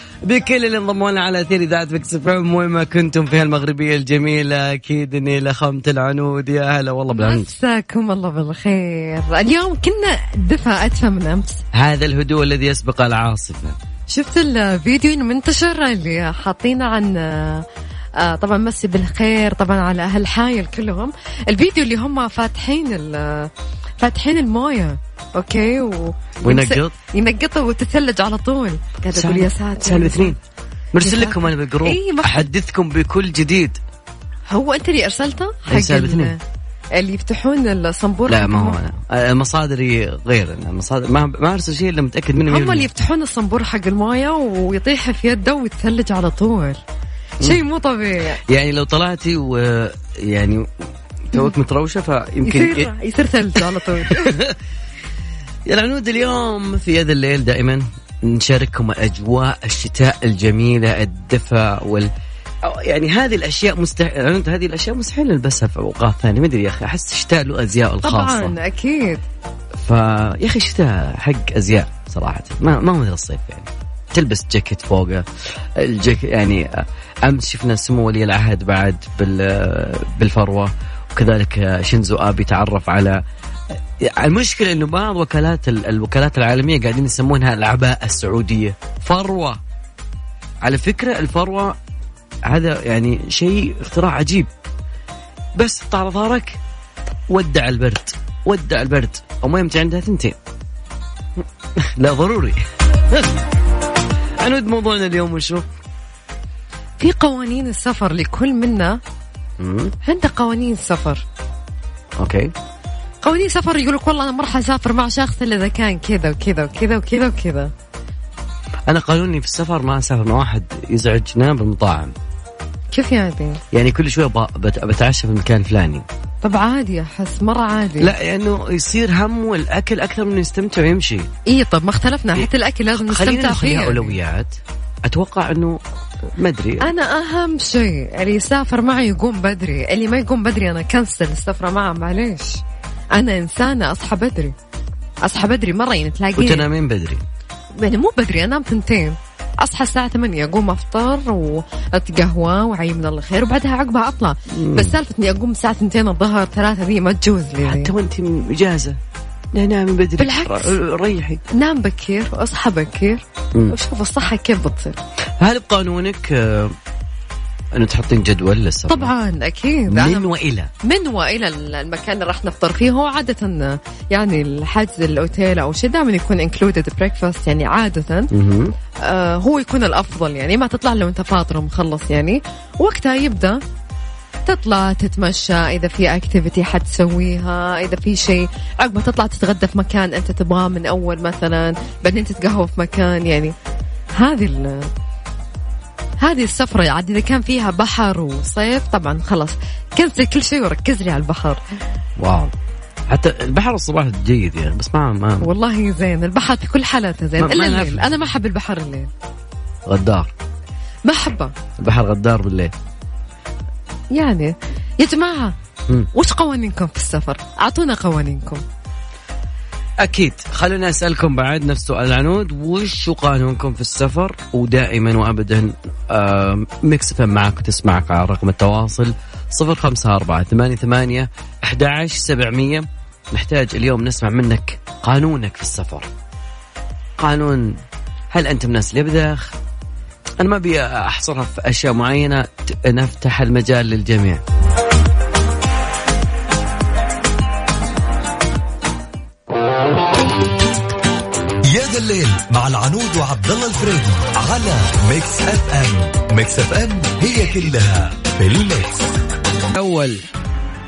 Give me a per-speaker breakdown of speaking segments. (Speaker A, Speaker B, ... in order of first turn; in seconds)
Speaker A: 0.3-7.5, 11.7-13.8, 26.4-26.9, 29.1-30.4, 30.9-33.8, 35.7-36.4, 38.3-42.9, 48.5-50.7, 51.3-52.9, 54.1-54.6, 55.7-62.1, 62.6-68.6, 69.8-83.2, 84.0-89.6, 90.6-91.7, 92.5-94.5, 95.6-96.6, 97.3-100.4, 101.4-102.6, 104.4-105.7, 109.6-109.9, 112.2-112.5, 118.9-122.2, 123.7-126.1, 128.0-131.3, 132.4-135.8, 136.4-136.9, 146.4-147.2, 154.5-154.9, 157.6-159.0, 159.5-161.4, 165.4-166.8, 167.8-169.1, 169.9-170.7, 178.3-178.7, 202.2-202.5, 203.1-205.5, 207.4-208.1, 209.9-210.3, 211.8-212.7, 220.0-236.1, 237.2-237.8, 238.3-239.5, 240.4-244.4, 259.7-260.3
Speaker B: 7.1-11.6, 14.1-17.7, 18.2-30.4, 31.0-32.5, 34.5-36.4, 37.0-38.8, 42.5-46.8, 47.4-48.4, 52.4-54.3, 68.0-69.2, 107.0-109.0, 110.0-111.2, 113.2-117.7, 122.9-123.6, 126.4-128.1, 131.5-134.2, 136.8-142.6, 143.2-144.6, 145.2-146.7, 147.8-157.9, 160.2-160.7, 161.5-165.0, 168.9-170.3, 170.8-178.3, 179.0-183.6, 184.5-193.6, 194.2-194.9, 196.2-201.6, 205.4-209.1, 211.1-211.5, 214.1-215.6, 216.2-218.6
Speaker C: 251.7-259.2